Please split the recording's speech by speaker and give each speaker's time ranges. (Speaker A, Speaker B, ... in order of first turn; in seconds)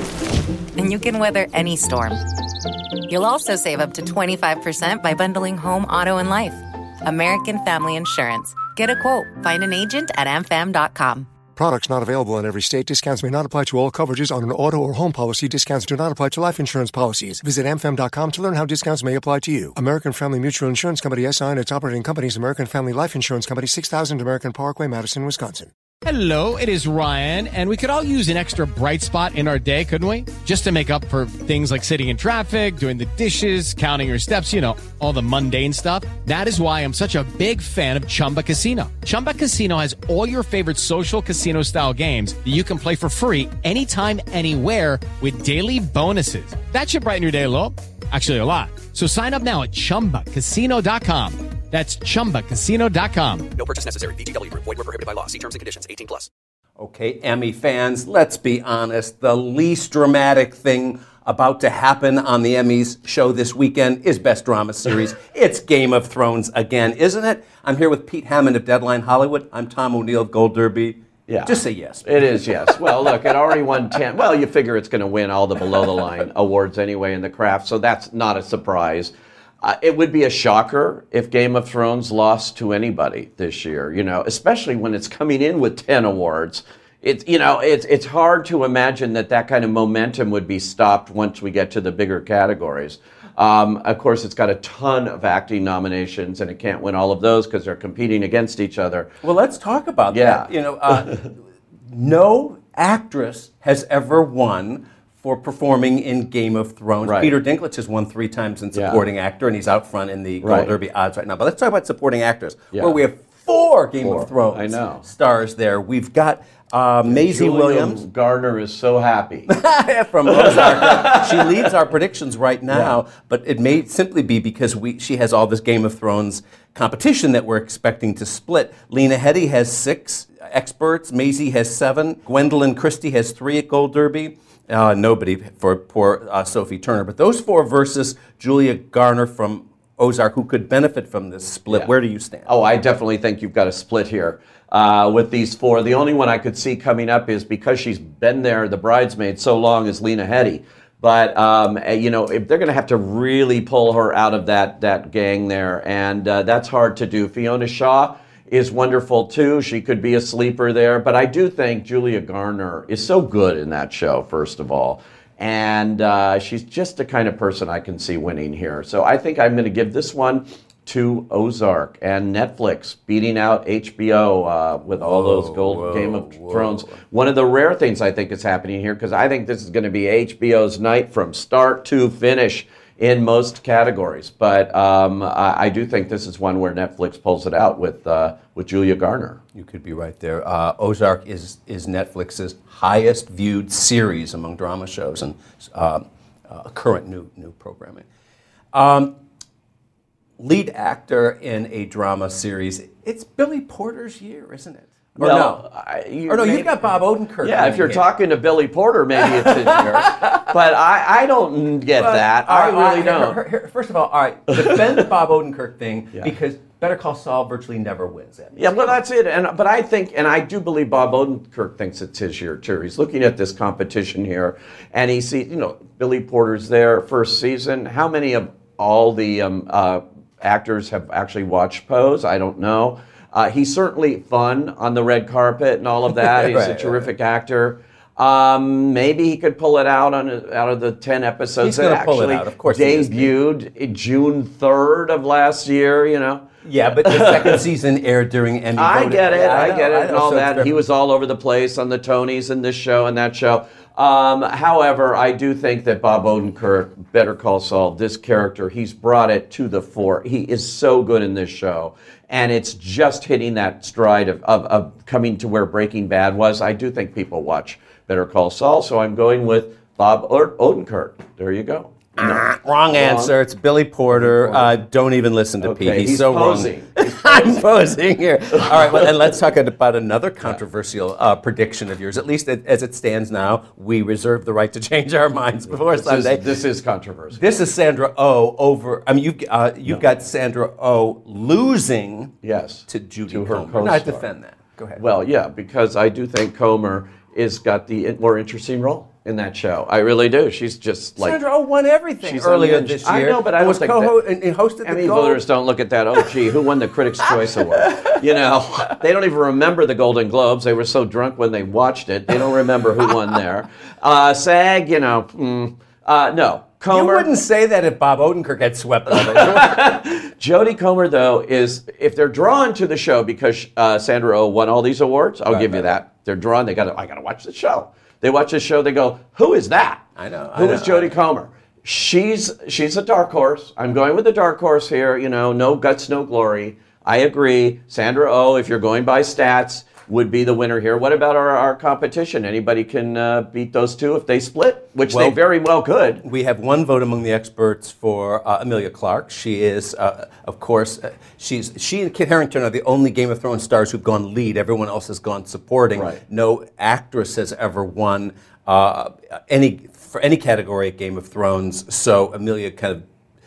Speaker A: 0.8-2.2, 3.1-11.3
Speaker B: 11.6-25.7
Speaker C: 26.1-53.5
Speaker D: 53.5-56.2
Speaker E: 56.8-73.2, 99.2-101.3, 101.9-118.0, 119.5-142.5, 175.0-177.0, 189.6-198.1, 198.7-199.1, 200.4-205.7, 206.3-208.1, 209.2-210.4, 212.0-219.0, 236.1-237.1, 241.6-243.3, 246.7-250.8, 272.2-286.6, 287.3-292.3, 292.9-295.0, 301.2-305.4, 306.1-306.4, 307.3-308.2, 316.9-319.8, 325.5-325.9, 330.2-331.1, 345.1-345.4, 346.2-363.0
Speaker F: 71.3-99.1, 100.1-100.5, 107.0-107.3, 108.7-109.0, 110.4-110.7, 114.0-115.0, 117.0-119.5, 120.3-121.7, 122.7-123.0, 142.5-189.4, 205.2-206.9, 207.4-213.4, 214.5-215.1, 218.6-246.5, 247.1-247.6, 248.8-273.3, 274.1-274.7, 275.6-277.6, 285.8-287.4, 292.4-294.2, 295.0-301.4, 302.2-304.1, 304.8-317.3, 319.1-330.0, 330.5-346.2, 355.9-356.2